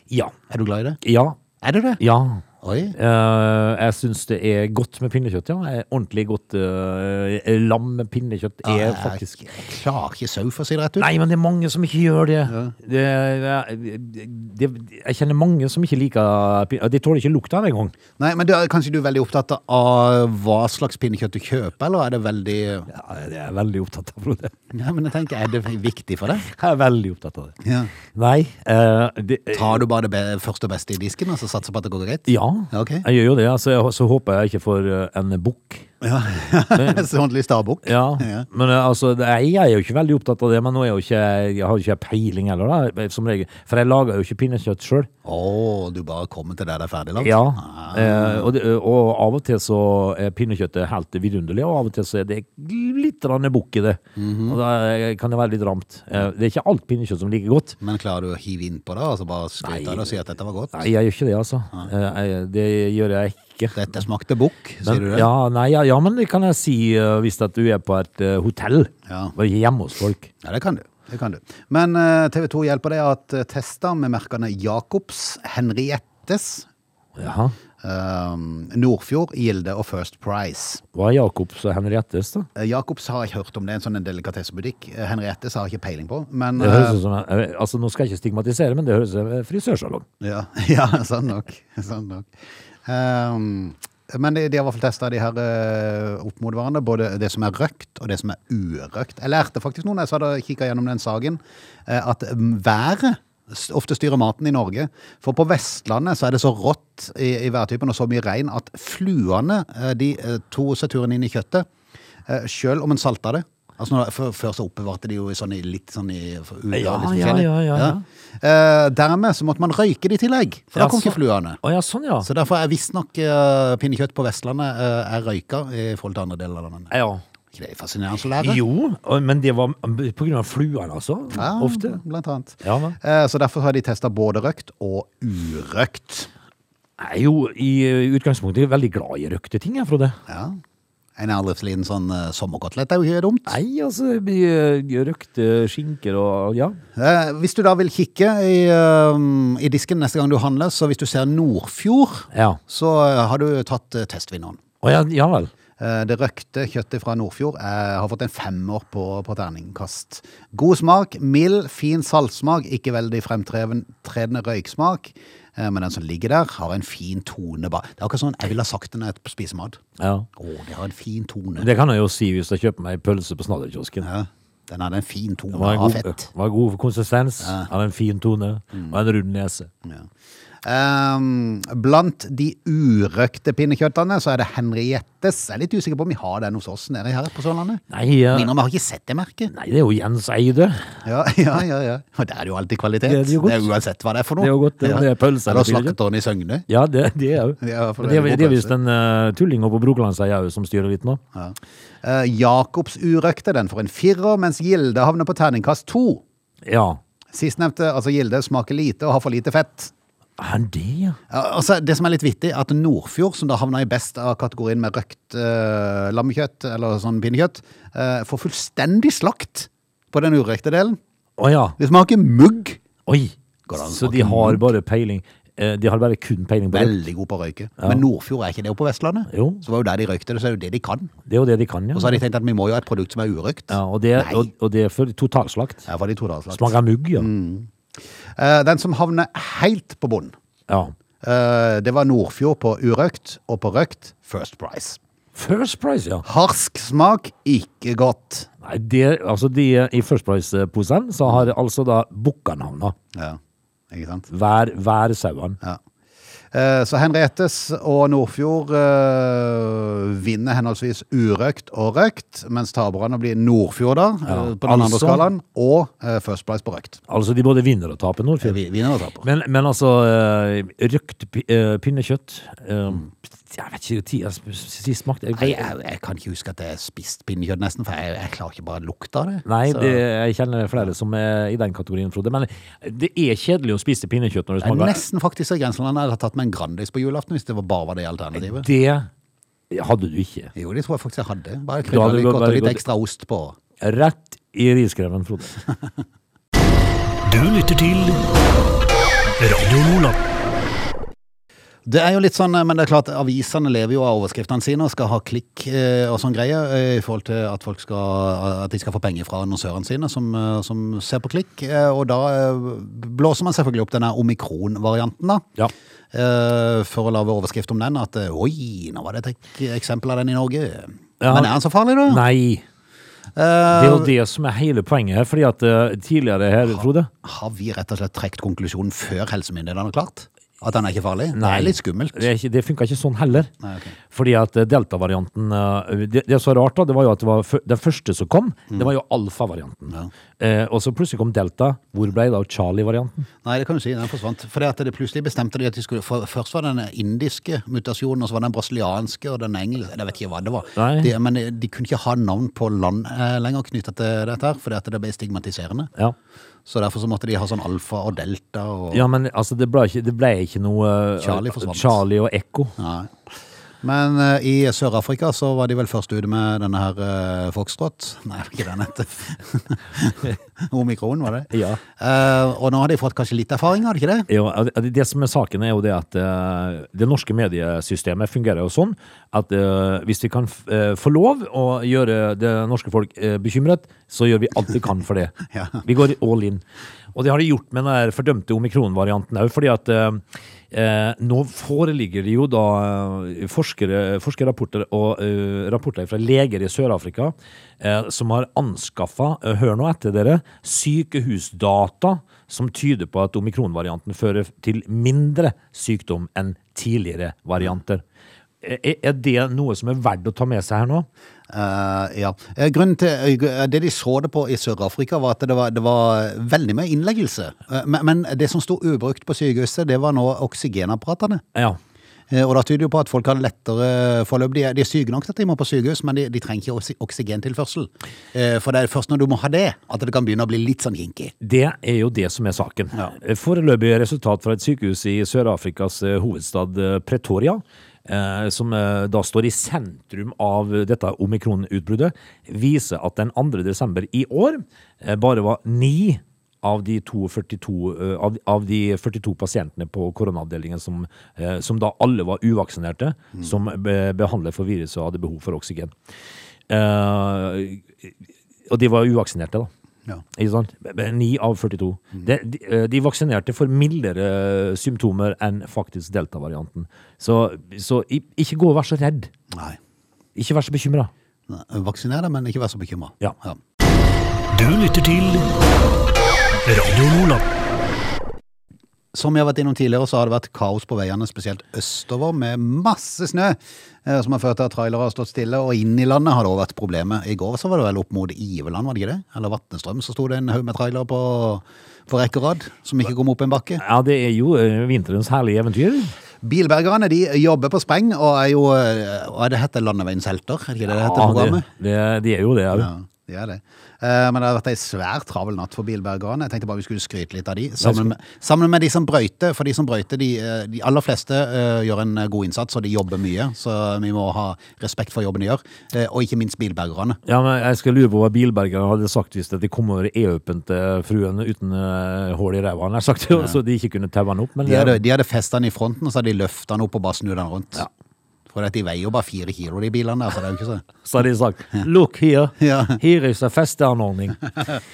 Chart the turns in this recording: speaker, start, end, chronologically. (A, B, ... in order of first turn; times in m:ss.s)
0:00.5-0:01.0 A
0:01.0-0:01.4 B
0:01.6-0:02.0 A
0:02.0-0:09.4 B
0:02.6-0:03.0 A
0:08.6-0:11.1 A
0:11.0-0:17.9 B
0:12.5-0:12.7 A
0:18.2-0:22.9 A
0:22.9-0:24.6 B
0:24.7-0:26.5 A
0:26.4-0:27.6 B
0:27.6-0:27.9 A
0:28.1-0:29.8 B
0:29.5-0:33.1 A
0:32.3-0:35.9 B
0:36.0-0:38.5 A
0:36.7-0:37.1 B
0:37.8-0:45.1 B
0:45.2-0:48.5 A
0:47.2-0:57.8 B
0:54.2-0:54.6 A
0:57.8-1:00.7 A
0:59.6-1:00.2 B
1:00.7-1:03.9 B
1:03.7-1:05.3 A
1:04.8-1:10.3 B
1:09.1-1:09.4 A
1:10.4-1:16.7 A
1:17.2-1:17.6 B
1:17.8-1:20.8 A
1:20.9-1:22.5 B
1:22.6-1:27.0 A
1:26.6-1:30.1 B
1:30.2-1:32.3 A
1:32.8-1:51.7 A
1:52.3-2:01.6 A
1:56.7-1:58.0 B
2:00.8-2:02.3 B
2:02.2-2:06.9 A
2:06.9-2:07.2 B
2:07.5-2:08.6 A
2:08.4-2:12.0 B
2:11.3-2:16.3 A
2:12.6-2:13.0 B
2:17.0-2:20.2 B
2:20.3-2:20.6 A
2:21.2-2:23.6 A
2:23.5-2:26.8 B
2:27.0-2:34.6 A
2:32.3-2:32.6 B
2:34.8-2:35.5 B
2:35.8-2:49.8 A
2:50.0-2:50.3 B
2:50.4-2:51.7 A
2:51.6-2:54.1 B
2:54.0-2:56.3 A
2:55.5-2:59.7 B
2:57.4-2:57.7 A
3:00.6-3:09.5 A
3:07.9-3:08.5 B
3:09.5-3:10.9 B
3:11.0-3:16.7 A
3:13.1-3:13.7 B
3:14.4-3:16.0 B
3:16.7-3:21.2 B
3:17.6-3:18.7 A
3:21.3-3:26.2 A
3:26.6-3:27.0 B
3:27.3-3:29.9 A
3:30.4-3:31.2 B
3:31.3-3:41.0 A
3:41.4-3:41.8 B
3:41.8-3:42.8 A
3:43.1-3:47.0 B
3:43.7-3:44.6 A
3:46.7-3:51.1 A
3:49.3-3:49.6 B
3:51.3-3:52.2 B
3:51.9-3:54.5 A
3:53.7-3:55.9 B
3:55.9-4:00.3 A
3:56.5-3:57.3 B
4:01.2-4:05.0 A
4:05.4-4:06.2 B
4:06.2-4:08.5 A
4:08.6-4:13.0 B
4:13.1-4:13.4 A
4:13.9-4:14.3 A
4:14.3-4:15.6 B
4:16.5-4:27.0 A
4:24.3-4:25.3 B
4:27.1-4:28.6 B
4:28.4-4:29.2 A
4:29.2-4:35.7 B
4:35.3-4:40.0 A
4:39.5-4:45.0 B
4:44.6-4:48.7 A
4:48.4-4:49.1 B
4:49.7-4:50.5 B
4:50.6-4:53.6 A
4:51.9-4:52.8 B
4:53.8-4:55.6 B
4:57.2-4:58.2 C
4:59.4-5:00.2 C
5:01.9-5:15.5 A
5:16.1-5:22.2 A
5:21.2-5:22.6 B
5:23.4-5:24.1 A
5:23.7-5:27.1 B
5:26.6-5:32.3 A
5:31.3-5:33.5 B
5:33.6-5:34.0 A
5:34.1-5:43.3 B
5:43.4-5:55.9 A
5:50.8-5:51.1 B
5:56.7-5:59.1 A
5:58.9-6:02.8 B
6:01.2-6:02.0 A
6:02.8-6:03.2 A
6:03.8-6:14.3 A
6:11.5-6:11.8 B
6:14.3-6:26.6 B
6:25.5-6:25.8 A
6:27.1-6:48.0 B
6:48.6-6:51.1 B
6:51.5-7:01.4 A
7:02.3-7:11.3 A
7:11.4-7:35.9 B
7:36.7-7:38.1 B
7:38.7-7:39.7 B
7:40.4-7:49.3 B
7:49.5-7:49.8 A
7:50.4-7:51.1 B
7:51.5-7:53.6 A
7:54.5-7:55.5 C
7:56.6-7:57.4 C
7:59.1-8:13.8 A
8:13.8-8:16.1 B
8:16.4-8:21.7 A
8:20.9-8:22.9 B
8:22.7-8:37.2 A
8:27.8-8:28.1 B
8:37.2-8:45.0 B
8:44.6-8:47.9 A
8:48.5-8:50.8 A
8:51.0-8:54.5 B
8:52.6-8:53.0 A